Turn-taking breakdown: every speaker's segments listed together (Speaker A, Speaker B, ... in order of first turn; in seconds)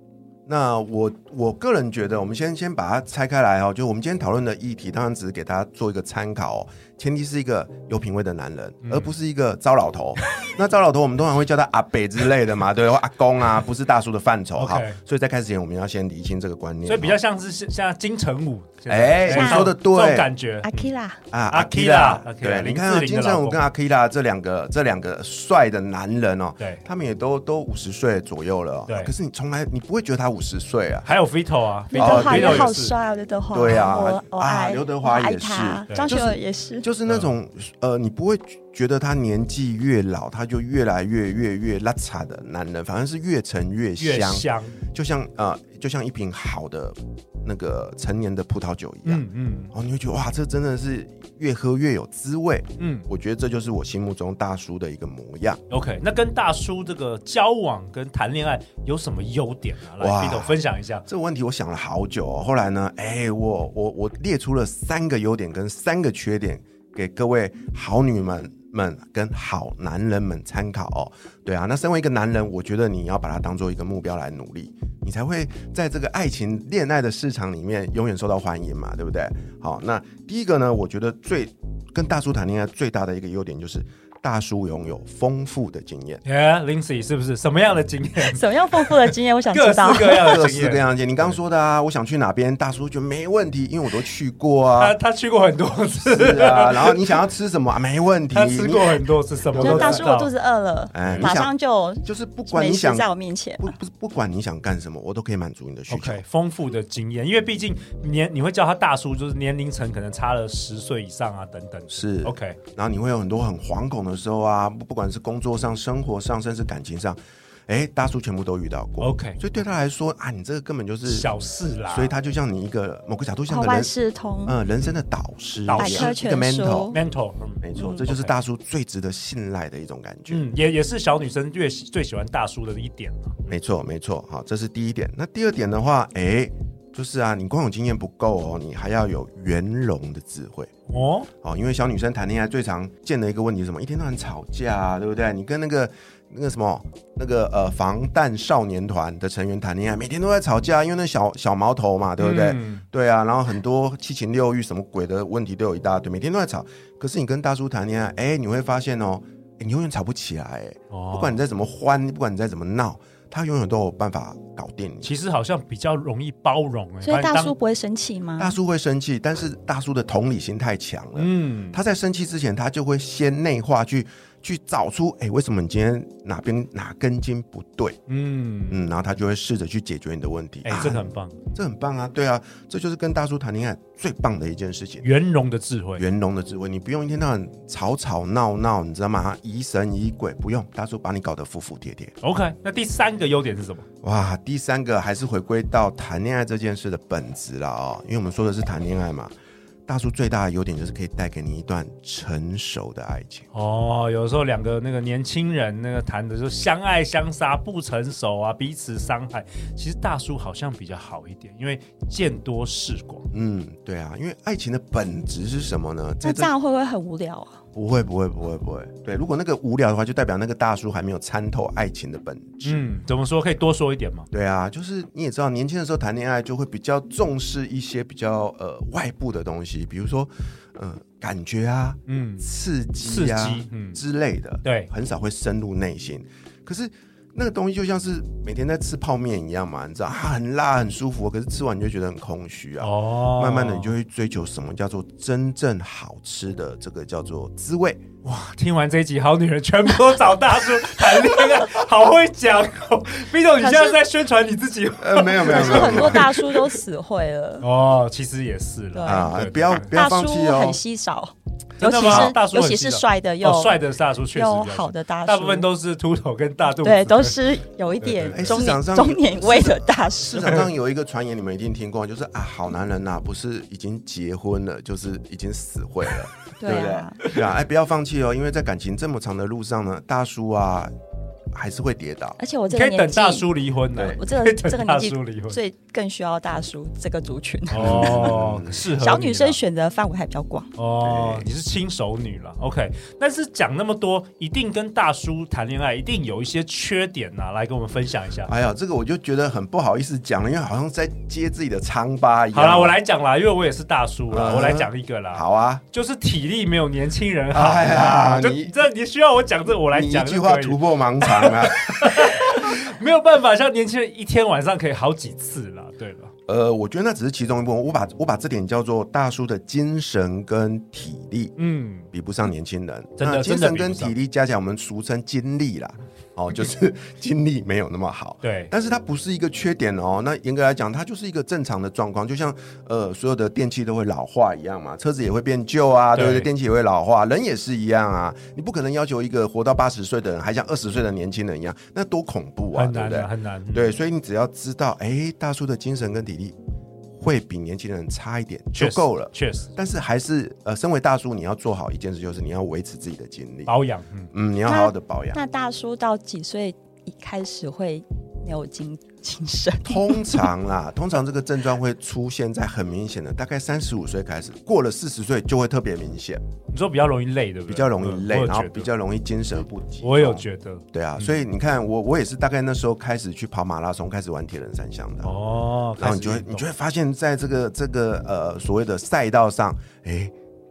Speaker A: 0.5-17.2, 18.9-20.3, 21.3-31.1, 32.0-32.8, 33.5-55.6, 60.0-86.2, 90.1-94.9, 96.0-100.1, 100.9-101.5, 102.0-103.1, 103.6-106.2, 111.9-121.3, 121.9-123.9, 124.5-127.0, 127.6-130.4, 133.5-140.7, 141.4-165.1, 168.4-178.0, 178.7-185.1, 185.9-192.1, 194.0-199.3, 199.8-203.5, 213.3-216.5, 217.7-222.9, 224.3-248.0, 255.0-256.3, 259.1-260.8, 262.0-262.3, 268.3-280.9, 281.5-282.4, 287.7-288.8, 291.0-291.5, 298.5-303.0, 304.3-305.8, 307.5-308.8, 309.9-312.7, 316.5-321.6, 322.1-346.6, 347.1-353.7, 354.3-355.4, 359.8-366.4, 367.7-375.3, 376.0-380.3
Speaker B: 8.8-9.1, 14.6-15.0, 16.9-20.9, 21.5-23.6, 31.0-32.9, 44.0-44.8, 49.0-49.7, 52.8-53.1, 55.7-61.0, 86.2-91.3, 94.8-97.1, 98.3-100.3, 101.0-101.3, 105.9-112.6, 119.0-119.4, 121.0-122.1, 125.7-126.2, 126.9-128.3, 130.3-133.5, 140.9-141.3, 152.2-152.8, 160.9-161.3, 165.0-167.5, 171.2-171.8, 178.1-178.8, 180.6-181.4, 185.0-186.0, 192.2-193.8, 203.5-213.3, 222.6-224.3, 232.1-232.4, 233.0-234.0, 234.6-234.9, 242.8-243.9, 248.2-256.8, 257.6-259.9, 261.8-267.4, 268.0-268.6, 270.4-270.6, 282.7-285.6, 287.7-289.6, 290.8-298.5, 302.5-316.3, 321.6-322.1, 323.2-324.1, 328.4-328.7, 336.1-336.5, 342.7-343.9, 348.8-349.7, 353.7-354.3, 366.7-368.9, 370.0-371.3, 375.2-376.7
Speaker C: 19.3-19.7, 20.6-21.2, 31.9-36.9, 88.2-90.4, 99.6-103.7, 123.5-124.5, 125.7-127.0, 167.0-168.6, 216.2-217.6, 253.6-254.0, 255.4-257.6, 258.9-263.8, 264.3-265.7, 266.8-270.5, 276.6-277.2, 282.4-288.3, 289.0-290.7, 354.6-360.5